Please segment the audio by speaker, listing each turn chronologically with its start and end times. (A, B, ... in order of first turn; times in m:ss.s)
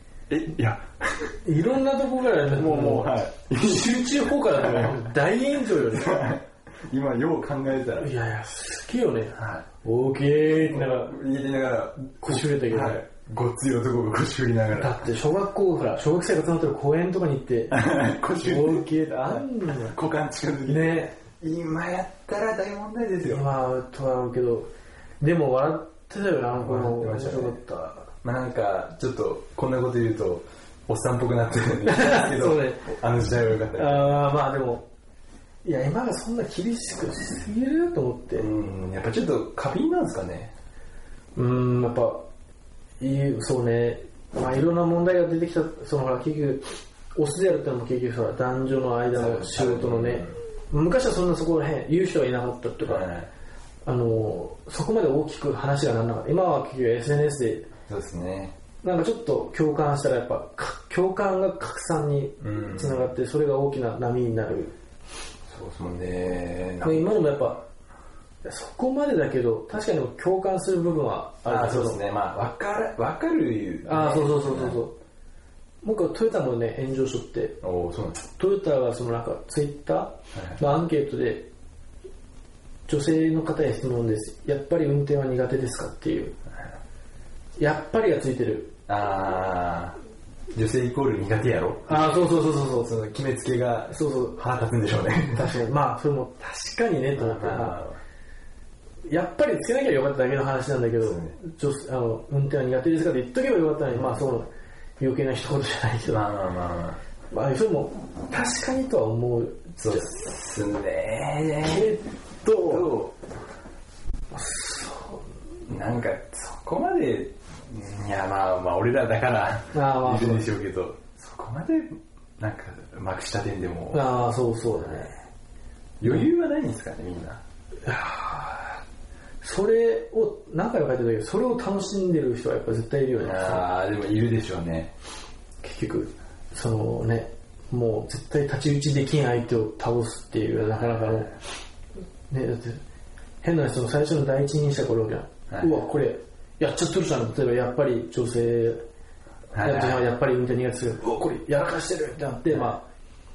0:00.3-0:01.4 A
0:01.4-0:06.4 B
0:02.3-0:05.1 A
0:05.7-0:08.1 A
0:08.0-0:11.2 B
0:09.3-0:09.6 A
0:10.5-0:15.1 A
0:12.2-0:13.0 B
0:14.7-0:20.0 B
0:17.7-0:23.5 A
0:20.6-0:21.1 B
0:23.2-0:28.1 B
0:26.5-0:27.6 A
0:28.2-0:34.2 A
0:31.8-0:32.9 B
0:33.7-0:34.9 B
0:35.6-0:38.5 B
0:38.3-0:40.5 A
0:41.3-0:42.2 B
0:43.0-0:53.1 B
0:49.1-0:50.4 A
0:52.8-0:53.3 A
0:53.8-0:57.7 B
0:57.9-0:58.5 A
0:58.8-1:04.7 B
1:02.4-1:03.1 A
1:05.5-1:07.2 A
1:06.8-1:07.6 B
1:08.4-1:12.0 B
1:11.4-1:14.8 A
1:13.8-1:14.9 B
1:15.8-1:17.6 B
1:17.6-1:18.2 A
1:18.2-1:21.5 B
1:20.3-1:20.6 A
1:22.9-1:26.3 B
1:27.6-1:28.7 B
1:28.9-1:30.0 A
1:30.5-1:35.6 A
1:31.9-1:32.9 B
1:33.9-1:34.4 B
1:35.3-1:37.8 B
1:37.1-1:38.0 A
1:39.1-1:44.5 B
1:41.0-1:41.4 A
1:43.9-1:44.2 A
1:45.0-1:46.2 B
1:46.1-1:47.0 A
1:47.3-1:50.1 B
1:49.8-1:52.0 A
1:51.6-1:52.9 B
1:52.6-1:53.1 A
1:54.3-1:55.3 B
1:55.6-2:04.1 A
1:59.7-2:00.5 B
2:03.9-2:05.2 B
2:04.7-2:05.1 A
2:06.0-2:07.4 A
2:07.8-2:08.8 B
2:09.4-2:13.7 B
2:13.2-2:14.9 A
2:15.6-2:21.3 B
2:20.7-2:21.3 A
2:22.3-2:22.8 B
2:23.4-2:28.8 B
2:25.5-2:25.8 A
2:29.5-2:30.0 A
2:29.6-2:32.8 B